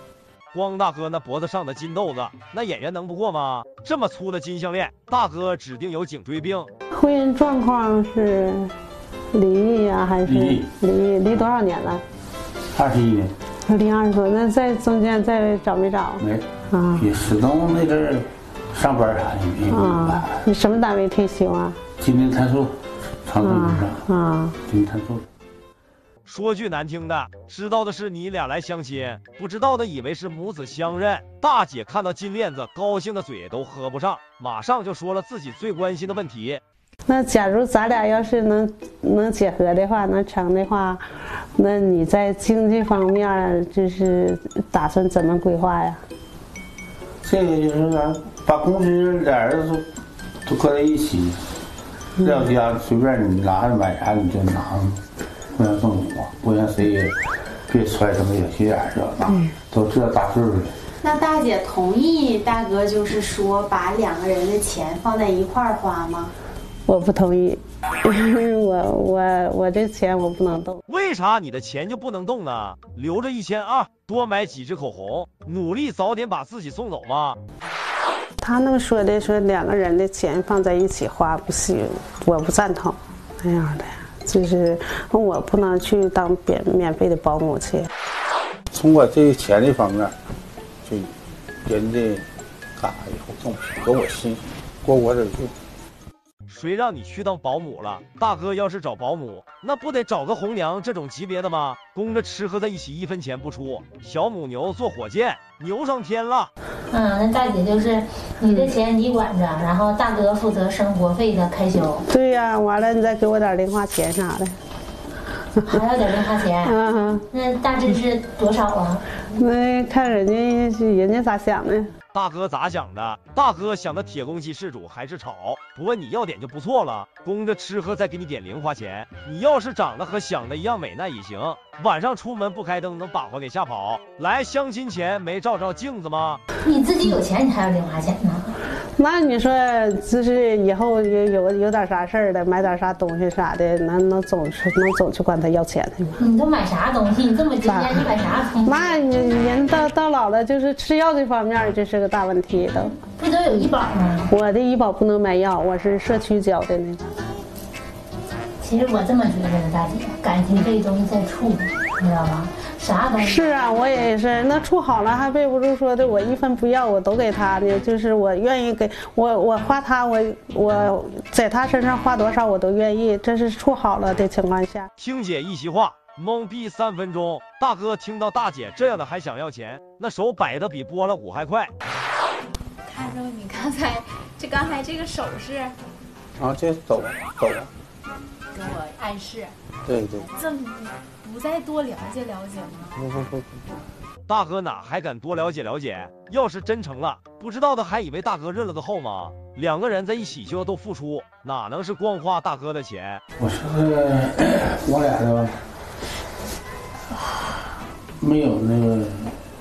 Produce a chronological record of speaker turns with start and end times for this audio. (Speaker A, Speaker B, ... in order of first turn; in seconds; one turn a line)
Speaker A: 0.5-6.7
Speaker B: 7.0-8.5
Speaker B: 9.4-12.0
Speaker C: 10.2-10.7
Speaker C: 12.7-13.3
Speaker B: 13.8-16.2
Speaker C: 16.2-20.4
Speaker B: 16.8-17.0
Speaker B: 19.8-21.7
Speaker C: 22.0-22.7
Speaker C: 23.2-24.1
Speaker B: 23.5-24.5
Speaker C: 24.6-25.2
Speaker A: 26.2-36.6
Speaker B: 37.1-41.0
Speaker B: 41.6-46.0
Speaker C: 47.2-49.8
Speaker C: 50.5-51.4
Speaker C: 52.2-55.0
Speaker C: 55.5-57.1
Speaker C: 57.7-60.7
Speaker D: 61.0-66.3
Speaker B: 66.9-67.5
Speaker B: 68.5-70.8
Speaker A: 70.9-77.4
Speaker B: 78.4-87.8
Speaker C: 88.7-90.1
Speaker C: 90.8-91.1
Speaker C: 91.6-92.2
Speaker C: 92.8-95.5
Speaker A: 96.5-106.5
Speaker E: 106.9-112.0
Speaker B: 112.1-114.5
Speaker E: 115.7-116.8
Speaker B: 116.7-117.2
Speaker E: 117.3-119.0
Speaker B: 119.4-121.8
Speaker A: 122.1-136.4
Speaker E: 136.6-138.6
Speaker B: 139.0-146.1
Speaker E: 146.2-148.8
Speaker B: 148.6-152.9
Speaker E: 153.2-154.3
Speaker B: 154.3-157.0
Speaker E: 158.6-163.4
Speaker B: 163.2-174.8
Speaker A: 175.0-181.7
Speaker D: 183.1-183.9
Speaker D: 184.5-185.4
Speaker C: 186.4-187.7
Speaker D: 188.7-189.4
Speaker C: 189.8-190.3
Speaker D: 192.2-192.6
Speaker C: 192.9-193.6
Speaker A: 194.3-203.2
Speaker C: 203.4-205.5
Speaker C: 208.2-209.3